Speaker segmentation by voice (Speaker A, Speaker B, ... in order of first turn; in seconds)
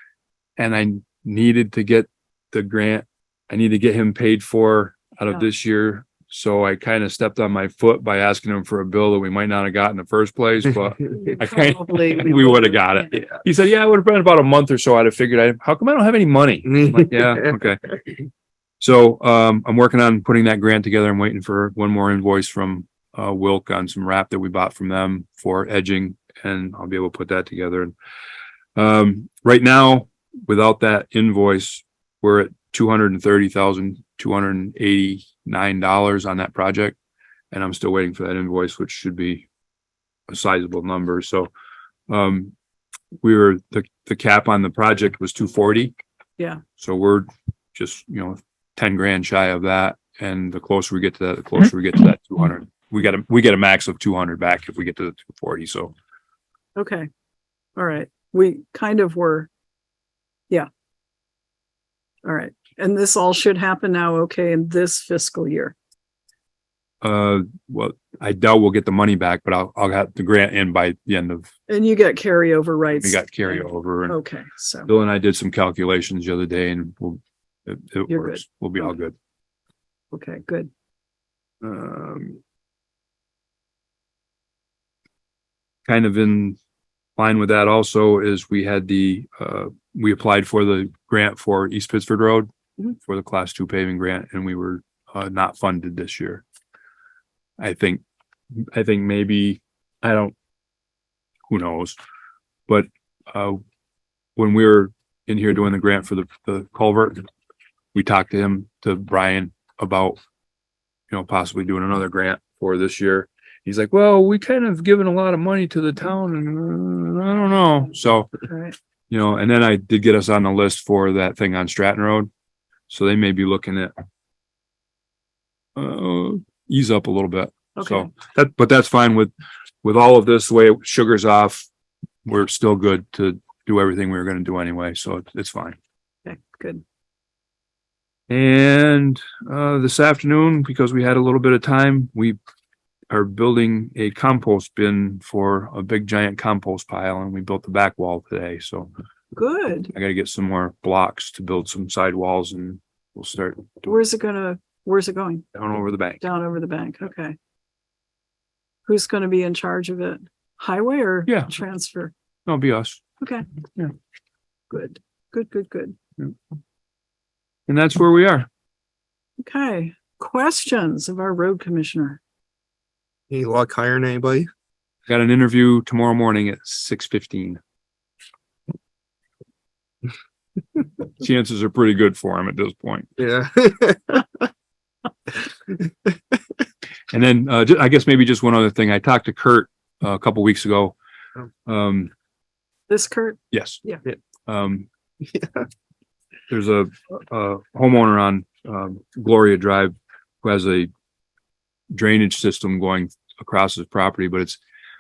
Speaker A: 0.6-17.9, 18.8-27.9, 28.8-37.0, 37.5-39.5, 40.3-41.5, 42.1-42.5, 43.2-45.9, 46.8-55.9, 67.0-71.5, 73.0-74.2, 74.9-79.1, 81.6-82.4, 85.9-86.6, 87.2-96.4, 97.6-98.0, 98.6-100.3, 101.5-102.0, 102.7-103.6, 104.4-107.3, 107.9-110.2, 111.1-118.3, 119.1-122.3, 122.9-123.9, 125.8-129.3, 129.8-131.7, 132.2-135.8, 138.3-142.4, 143.1-148.9, 149.9-154.0, 155.5-156.2, 161.3-161.5, 162.5-163.0, 167.7-168.5, 175.1-177.6, 181.2-183.1, 187.1-191.0, 191.7-192.1, 193.5-193.8, 194.5-194.9, 196.5-200.9, 201.9-204.6
Speaker B: 11.3-13.0, 56.8-57.1, 57.8-59.5, 62.2-65.8, 71.7-74.9, 78.1-79.0, 80.1-80.7, 118.4-118.8, 127.8-128.1, 136.2-136.8, 149.3-149.9, 153.9-155.5, 156.2-157.4, 158.9-162.1, 163.2-163.5, 164.7-166.0, 169.4-172.2, 192.9-194.0
Speaker C: 16.7-17.4, 173.3-174.5, 183.2-184.3, 195.3-195.7